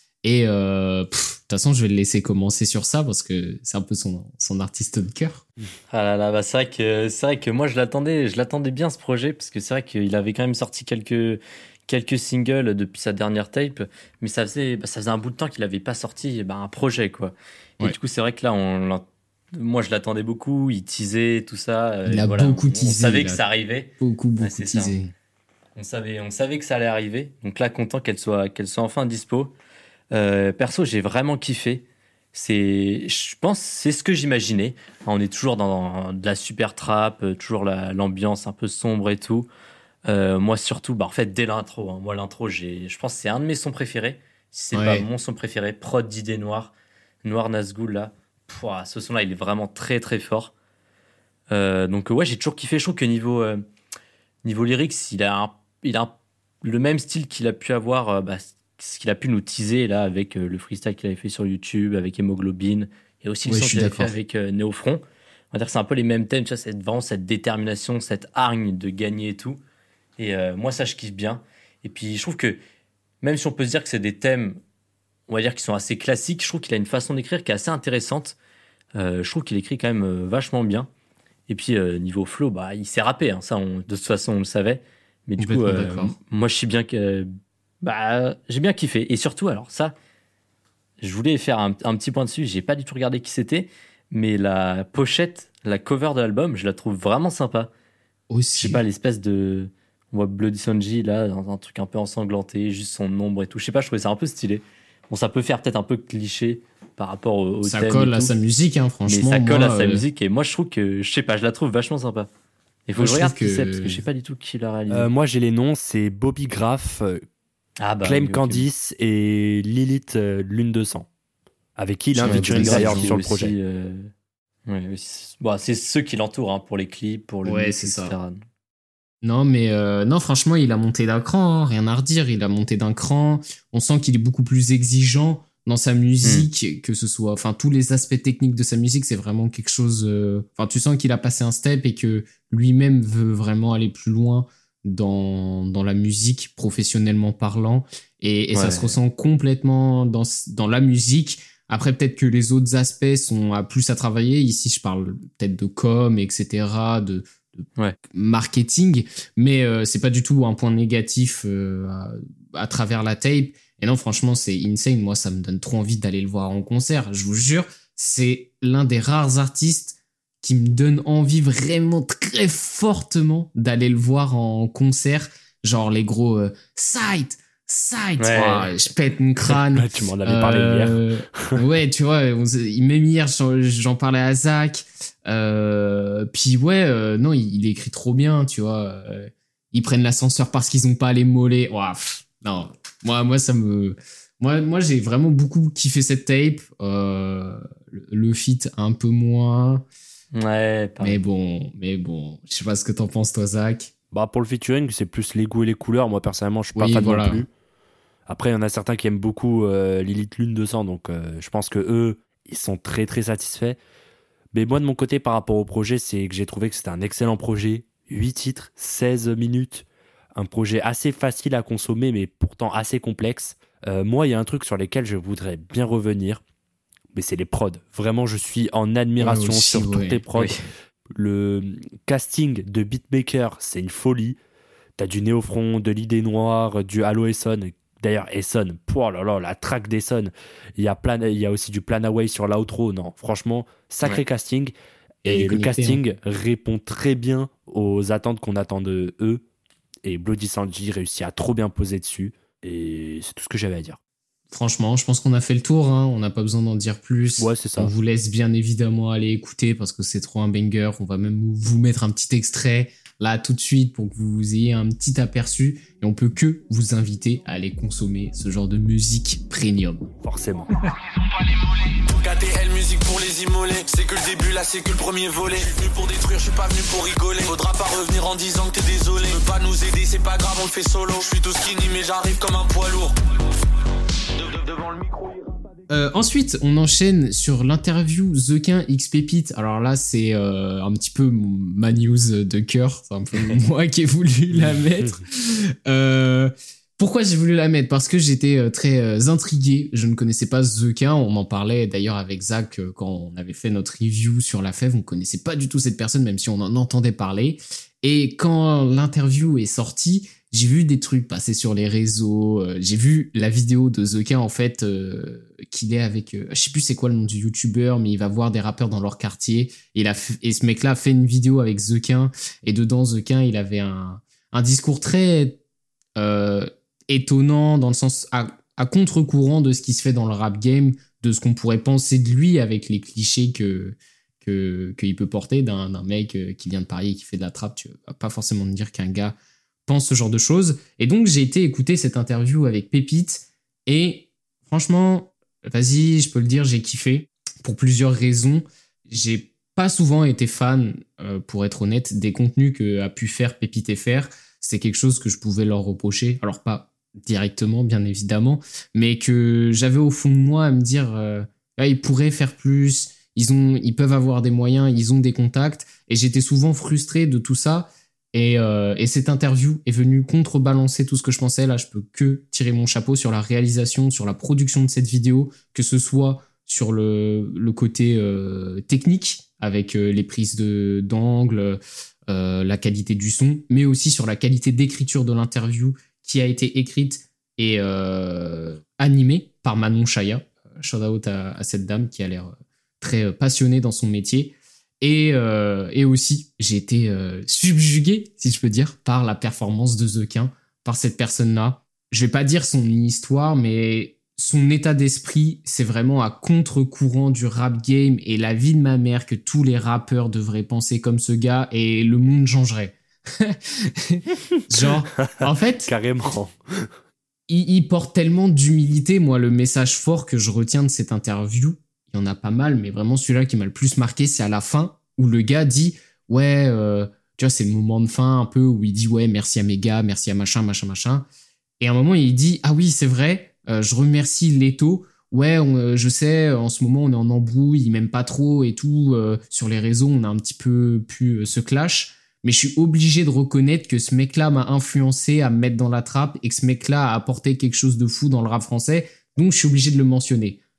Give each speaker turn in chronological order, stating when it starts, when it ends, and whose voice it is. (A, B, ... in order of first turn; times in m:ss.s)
0:00.2-0:05.4 A
0:05.9-0:19.0 B
0:19.5-0:25.0 B
0:22.0-0:23.4 A
0:24.0-0:25.1 A
0:25.7-0:29.5 B
0:30.1-0:39.5 B
0:40.0-0:46.7 B
0:44.7-0:45.0 A
0:47.2-0:50.5 B
0:51.5-0:53.6 B
0:54.4-1:05.0 B
1:03.5-1:04.2 A
1:05.5-1:09.6 B
1:10.2-1:12.6 B
1:13.2-1:14.6 B
1:15.3-1:18.4 B
1:18.9-1:20.9 B
1:21.5-1:27.3 B
1:25.4-1:26.1 A
1:27.8-1:29.9 B
1:31.0-1:37.7 B
1:38.3-1:38.8 A
1:38.5-1:48.3 B
1:47.6-1:50.0 A
1:49.0-1:52.3 B
1:52.9-1:55.1 B
1:53.0-1:54.0 A
1:54.9-1:57.2 C
1:57.8-1:58.6 B
1:58.0-2:01.1 C
2:01.8-2:03.5 C
2:02.1-2:03.1 A
2:02.2-2:04.1 B
2:04.7-2:08.4 B
2:07.4-2:08.2 A
2:09.2-3:19.8 A
2:16.2-2:16.5 B
2:28.5-2:29.0 B
2:58.2-2:58.7 B
2:59.5-3:01.6 C
3:20.3-3:21.2 B
3:21.0-3:23.9 A
3:24.1-3:27.5 C
3:26.7-3:27.4 A
3:28.3-3:33.8 C
3:34.5-3:46.4 C
3:47.1-3:50.5 C
3:49.2-3:50.2 A
3:51.2-3:54.4 C
3:55.0-4:04.7 C
4:05.2-4:06.0 A
4:05.2-4:09.4 C
4:10.0-4:14.0 C
4:14.5-4:30.0 A
4:17.4-4:17.9 C
4:30.2-4:30.7 C
4:32.1-4:43.1 D
4:44.4-4:45.4 D
4:45.9-5:25.6 A
4:54.6-4:55.1 C
5:26.2-5:39.3 A
5:39.9-6:55.9 A
6:55.9-6:56.9 C
6:57.5-7:11.3 A
7:11.8-7:30.6 A